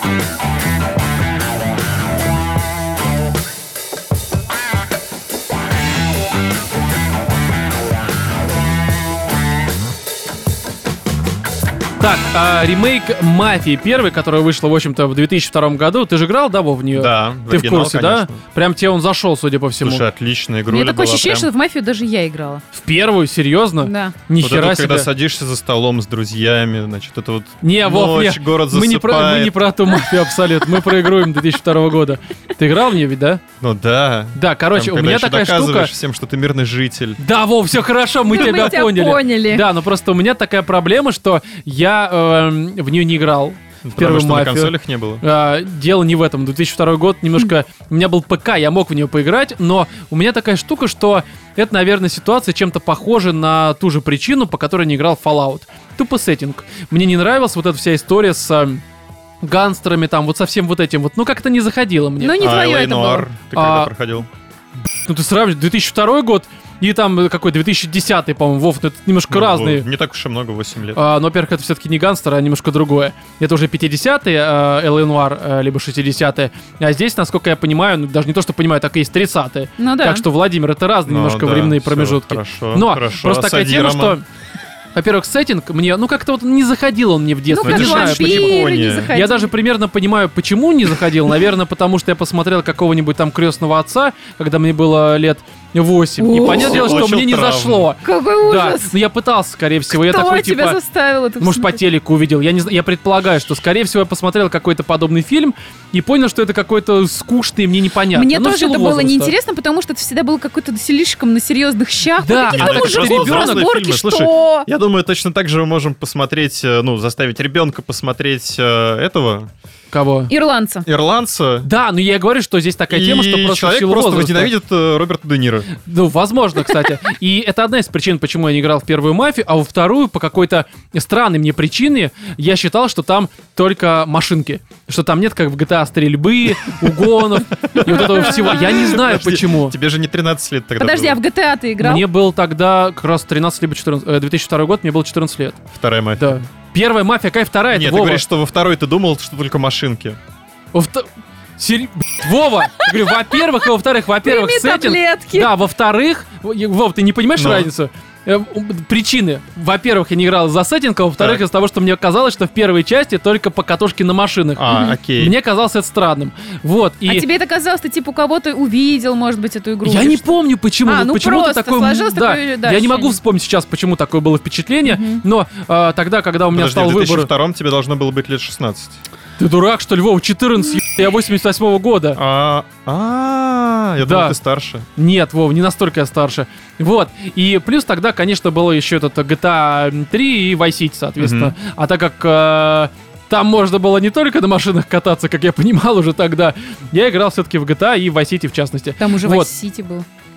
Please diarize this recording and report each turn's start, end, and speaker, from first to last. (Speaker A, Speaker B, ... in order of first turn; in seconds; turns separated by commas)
Speaker A: 12.0-20.1, Speaker B: 16.9-18.4, Speaker B: 19.8-21.5, Speaker C: 20.7-22.6, Speaker A: 22.7-25.1, Speaker C: 23.8-24.2, Speaker B: 24.4-29.6, Speaker A: 27.6-33.4, Speaker C: 30.7-30.9, Speaker B: 33.6-37.2, Speaker A: 34.4-35.9, Speaker A: 37.2-58.8, Speaker C: 38.3-39.7, Speaker B: 43.8-45.2, Speaker A: 59.4-62.5, Speaker C: 62.2-63.3, Speaker B: 62.4-64.3, Speaker A: 63.5-63.9, Speaker A: 65.0-69.8, Speaker B: 69.3-71.0, Speaker A: 71.0-84.2, Speaker C: 79.8-80.2, Speaker B: 81.1-84.2, Speaker A: 85.0-100.8, Speaker C: 87.5-89.5, Speaker B: 87.6-89.1, Speaker C: 96.2-96.8, Speaker B: 96.5-97.9, Speaker C: 98.0-98.9, Speaker C: 99.9-101.8, Speaker A: 101.4-109.3, Speaker C: 108.1-114.7, Speaker A: 112.2-113.7, Speaker B: 112.5-119.5, Speaker A: 119.9-120.3, Speaker C: 120.3-120.9, Speaker B: 120.8-121.7, Speaker A: 121.6-124.5, Speaker B: 122.9-125.7, Speaker A: 125.8-139.8, Speaker B: 136.8-141.2, Speaker C: 140.8-142.1, Speaker A: 141.8-145.6, Speaker B: 145.7-146.4, Speaker A: 146.2-148.2, Speaker B: 147.7-150.2, Speaker A: 150.7-151.1, Speaker A: 151.6-167.2, Speaker C: 152.9-153.4, Speaker C: 154.2-155.5, Speaker B: 157.4-157.7, Speaker B: 161.2-161.4, Speaker B: 164.6-165.3, Speaker C: 164.7-165.0, Speaker C: 167.1-173.2, Speaker A: 169.8-177.3, Speaker C: 174.8-175.2, Speaker B: 176.5-179.0, Speaker A: 179.4-182.2, Speaker B: 182.2-184.9, Speaker A: 184.0-184.4, Speaker A: 185.0-199.5, Speaker B: 191.2-191.5, Speaker C: 199.0-200.1